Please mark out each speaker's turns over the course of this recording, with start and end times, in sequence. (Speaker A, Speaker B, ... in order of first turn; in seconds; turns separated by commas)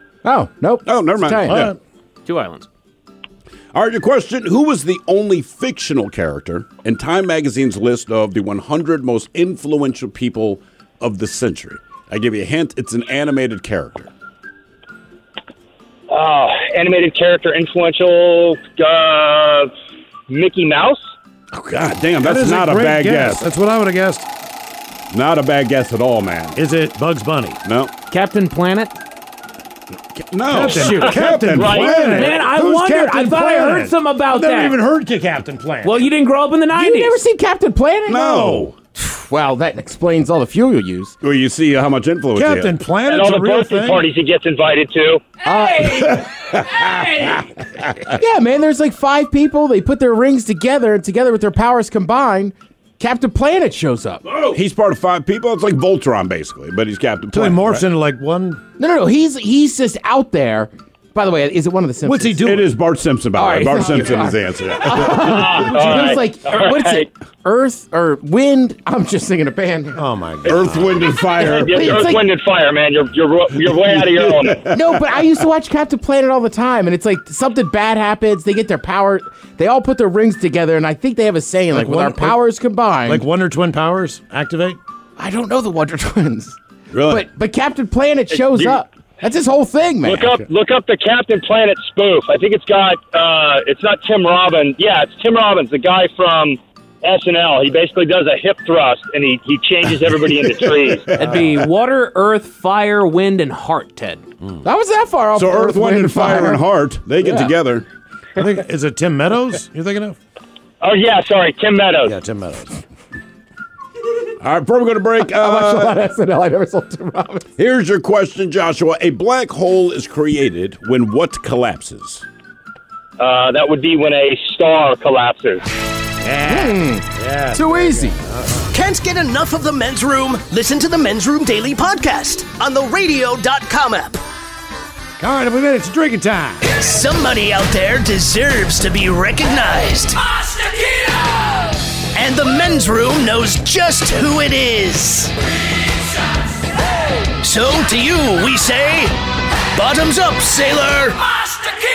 Speaker A: 0.2-1.7, Speaker B: 0.8-1.8, Speaker C: 1.5-1.8, Speaker D: 2.3-2.7, Speaker B: 3.7-14.1, Speaker E: 16.1-19.7, Speaker E: 20.3-21.1, Speaker B: 21.5-23.5, Speaker C: 22.2-24.3, Speaker B: 25.1-26.6, Speaker C: 26.6-27.6, Speaker B: 27.6-27.9, Speaker D: 28.1-28.9, Speaker B: 30.1-32.4, Speaker C: 30.5-36.0, Speaker D: 30.7-31.1, Speaker E: 31.6-32.0, Speaker D: 31.8-34.8, Speaker D: 35.8-37.2, Speaker A: 36.7-41.1, Speaker B: 38.1-38.8, Speaker B: 41.2-42.8, Speaker C: 42.3-44.1, Speaker E: 43.1-45.2, Speaker A: 45.5-46.2, Speaker D: 45.7-46.1, Speaker B: 45.9-47.4, Speaker D: 46.6-47.4, Speaker A: 48.1-54.4, Speaker B: 54.5-57.9, Speaker C: 57.3-58.6, Speaker A: 58.8-62.5, Speaker C: 62.0-62.7, Speaker B: 62.4-65.2, Speaker A: 63.3-70.0, Speaker E: 65.0-67.1, Speaker C: 70.0-71.1, Speaker B: 70.5-72.2, Speaker E: 71.4-74.7, Speaker A: 71.4-72.2, Speaker B: 73.7-75.2, Speaker A: 74.7-83.3, Speaker C: 81.7-82.4, Speaker C: 83.1-84.8, Speaker A: 85.2-90.4, Speaker B: 86.9-87.3, Speaker E: 88.3-88.8, Speaker E: 90.0-101.1, Speaker B: 99.9-101.7, Speaker D: 101.2-104.3, Speaker C: 101.2-101.5, Speaker A: 104.6-106.7, Speaker B: 105.3-107.9, Speaker C: 108.4-110.2, Speaker E: 110.8-112.2, Speaker C: 112.1-112.8, Speaker B: 114.4-116.0, Speaker A: 115.3-117.5, Speaker B: 117.6-122.3, Speaker E: 123.2-125.7, Speaker C: 126.2-128.7, Speaker A: 126.5-128.2, Speaker F: 128.7-134.2, Speaker C: 135.2-136.6, Speaker F: 136.6-140.2, Speaker F: 142.1-145.3, Speaker F: 147.4-149.2, Speaker F: 149.7-151.3